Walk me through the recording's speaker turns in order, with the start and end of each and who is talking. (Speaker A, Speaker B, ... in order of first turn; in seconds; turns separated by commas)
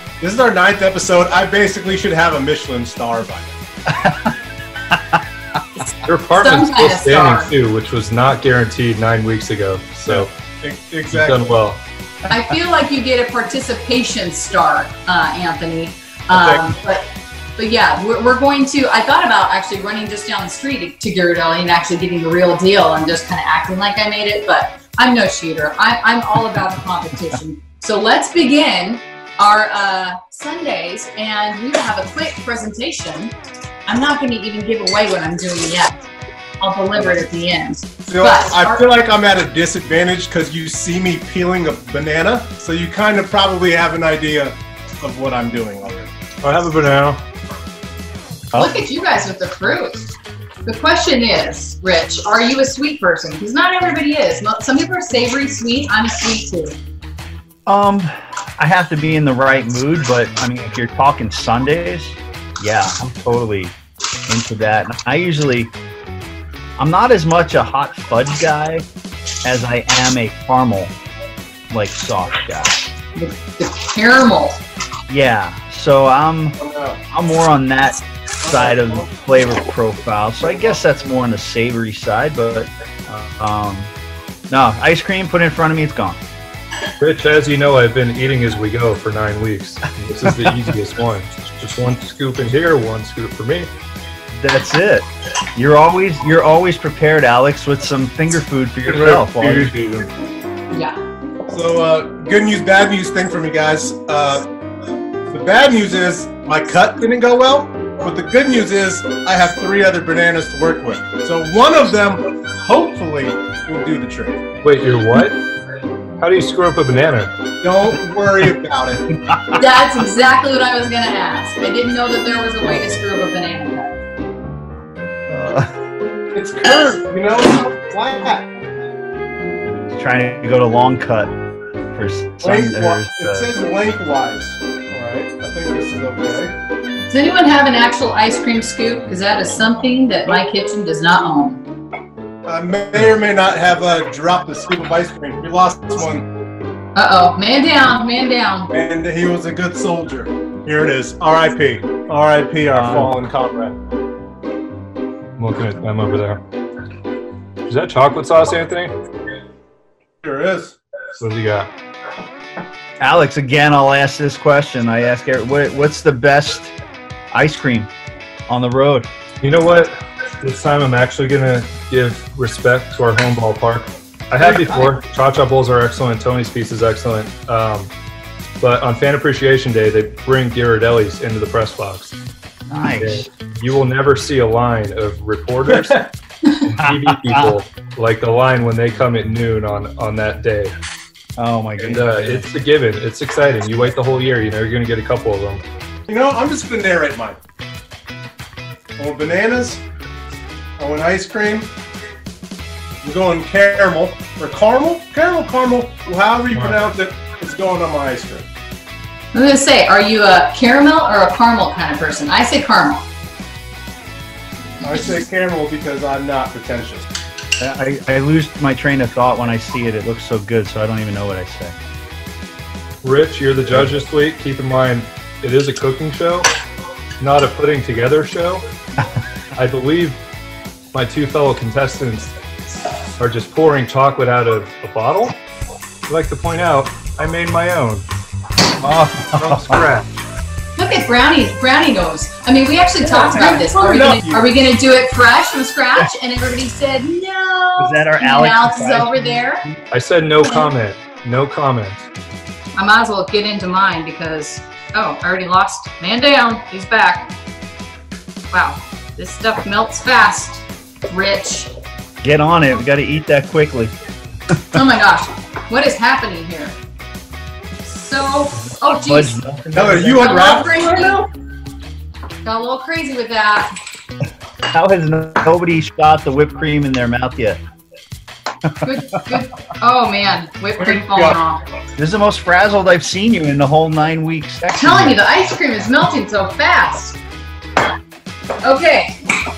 Speaker A: 0.2-3.5, Speaker B: 3.9-4.3, Speaker B: 4.9-5.2, Speaker C: 5.8-7.5, Speaker D: 6.0-10.3, Speaker A: 10.1-11.5, Speaker D: 11.1-11.8, Speaker C: 12.3-33.3, Speaker A: 16.3-16.6, Speaker C: 33.9-36.1, Speaker C: 36.6-38.8, Speaker A: 38.1-46.1, Speaker D: 46.4-47.2, Speaker B: 48.5-48.8, Speaker C: 48.5-50.1, Speaker C: 50.6-56.8, Speaker B: 57.7-63.8, Speaker B: 64.3-65.7, Speaker B: 66.8-68.8, Speaker B: 69.4-70.9, Speaker B: 71.7-72.8, Speaker C: 73.2-74.6, Speaker B: 75.1-76.6, Speaker A: 76.6-77.0, Speaker B: 77.1-83.9, Speaker A: 78.4-79.1, Speaker B: 84.5-86.2, Speaker D: 87.0-93.7, Speaker B: 90.2-90.5, Speaker B: 94.4-95.0, Speaker B: 95.5-99.7, Speaker D: 98.8-100.1, Speaker C: 100.7-101.0, Speaker A: 101.5-104.5, Speaker A: 105.3-114.4, Speaker D: 114.6-115.4, Speaker D: 116.2-117.3, Speaker A: 117.6-119.0, Speaker B: 119.2-119.6, Speaker C: 119.5-124.0, Speaker B: 125.3-125.7, Speaker A: 126.3-128.5, Speaker B: 129.9-131.3, Speaker B: 131.9-133.5, Speaker A: 132.4-136.6, Speaker C: 137.1-141.6, Speaker A: 142.4-146.3, Speaker C: 146.9-148.7, Speaker A: 148.7-153.8, Speaker B: 152.7-153.1, Speaker D: 155.4-156.4, Speaker D: 157.7-158.9, Speaker A: 160.2-160.8, Speaker D: 161.2-161.7, Speaker B: 163.0-166.7, Speaker B: 167.3-167.9, Speaker B: 168.5-169.1, Speaker D: 169.4-177.9, Speaker B: 174.4-174.9, Speaker D: 178.6-182.1, Speaker B: 182.7-183.3, Speaker D: 182.9-190.7, Speaker B: 186.8-187.5, Speaker B: 191.4-192.4, Speaker D: 191.8-195.6, Speaker A: 196.1-197.4, Speaker A: 199.0-199.8, Speaker A: 200.8-201.7, Speaker A: 203.0-208.5, Speaker D: 206.5-206.8, Speaker C: 209.3-213.0, Speaker A: 214.8-217.1, Speaker B: 217.6-221.7, Speaker D: 223.0-226.5, Speaker D: 227.2-228.6, Speaker D: 229.6-230.2, Speaker D: 230.9-232.3, Speaker D: 233.2-235.4, Speaker D: 236.1-238.1, Speaker B: 238.8-239.8, Speaker A: 239.4-239.8, Speaker D: 239.6-240.2, Speaker C: 240.8-249.6, Speaker B: 243.0-243.7, Speaker A: 243.4-244.6, Speaker B: 247.8-249.8, Speaker D: 249.9-252.1, Speaker C: 252.7-257.3, Speaker C: 258.5-261.7, Speaker B: 262.2-263.9, Speaker C: 264.7-266.8, Speaker C: 267.8-269.4, Speaker B: 268.9-270.5, Speaker A: 269.7-271.2, Speaker C: 270.1-271.3, Speaker C: 272.4-273.7, Speaker B: 274.7-277.6, Speaker C: 278.8-281.6, Speaker A: 280.8-281.4, Speaker B: 282.0-285.2, Speaker C: 284.8-287.2, Speaker C: 288.6-289.1